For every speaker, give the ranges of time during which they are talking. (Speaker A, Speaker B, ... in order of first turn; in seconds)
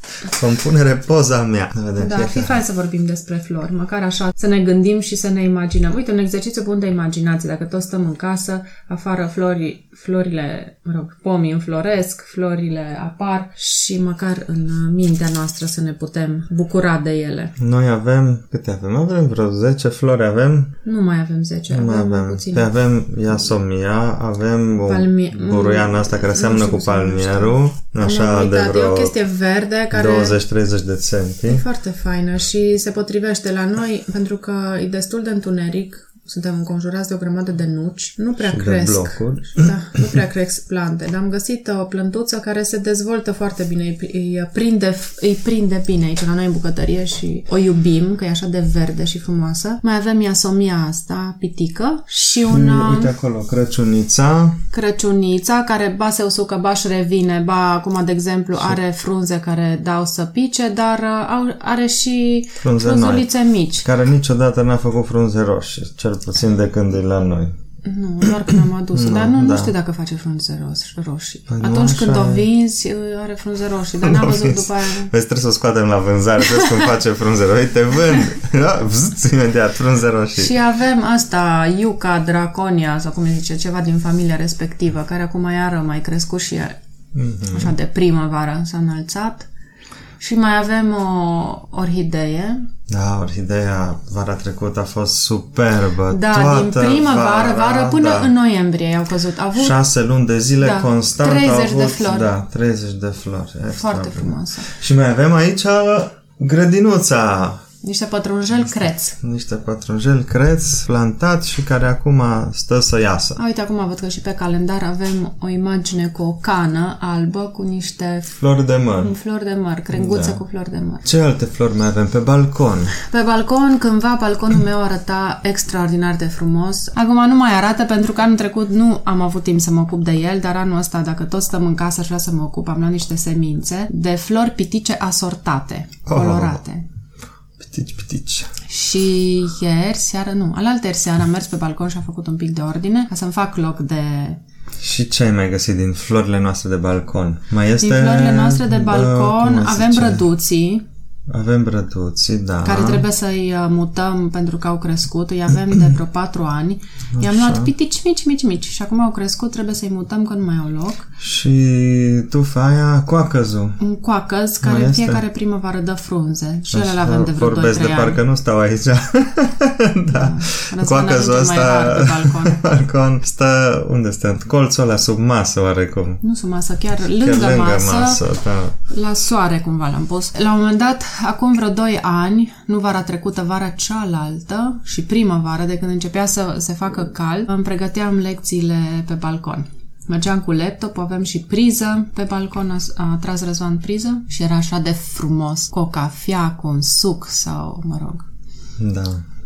Speaker A: 0.2-2.6, 17.6-20.8, 21.7-29.1, 29.9-31.6, 38.4-39.7, 52.4-54.6, 62.6-63.3, 63.8-67.5, 68.9-69.7, 71.5-72.5, 74.0-80.5, 87.1-87.7, 92.9-98.3, 99.5-107.6, 109.2-113.4, 118.4-119.1, 119.9-120.4, 121.0-123.0, 136.1-136.6, 137.6-138.5, 144.8-150.2, 151.3-153.1, 157.1-157.7, 161.2-163.8, 164.6-165.2, 166.7-176.2, 177.0-178.8, 198.8-199.2
Speaker B: 2.0-17.5, 20.8-22.7, 24.9-30.4, 31.5-53.1, 54.7-63.9, 67.8-75.1, 76.5-76.9, 80.3-86.7, 87.5-89.5, 90.2-92.6, 96.1-99.8, 100.6-102.3, 103.7-104.7, 107.8-109.2, 113.4-118.3, 119.0-121.0, 123.0-136.8, 138.7-144.4, 147.8-150.8, 152.6-161.1, 163.8-168.2, 170.1-172.6, 176.2-178.2, 178.9-198.3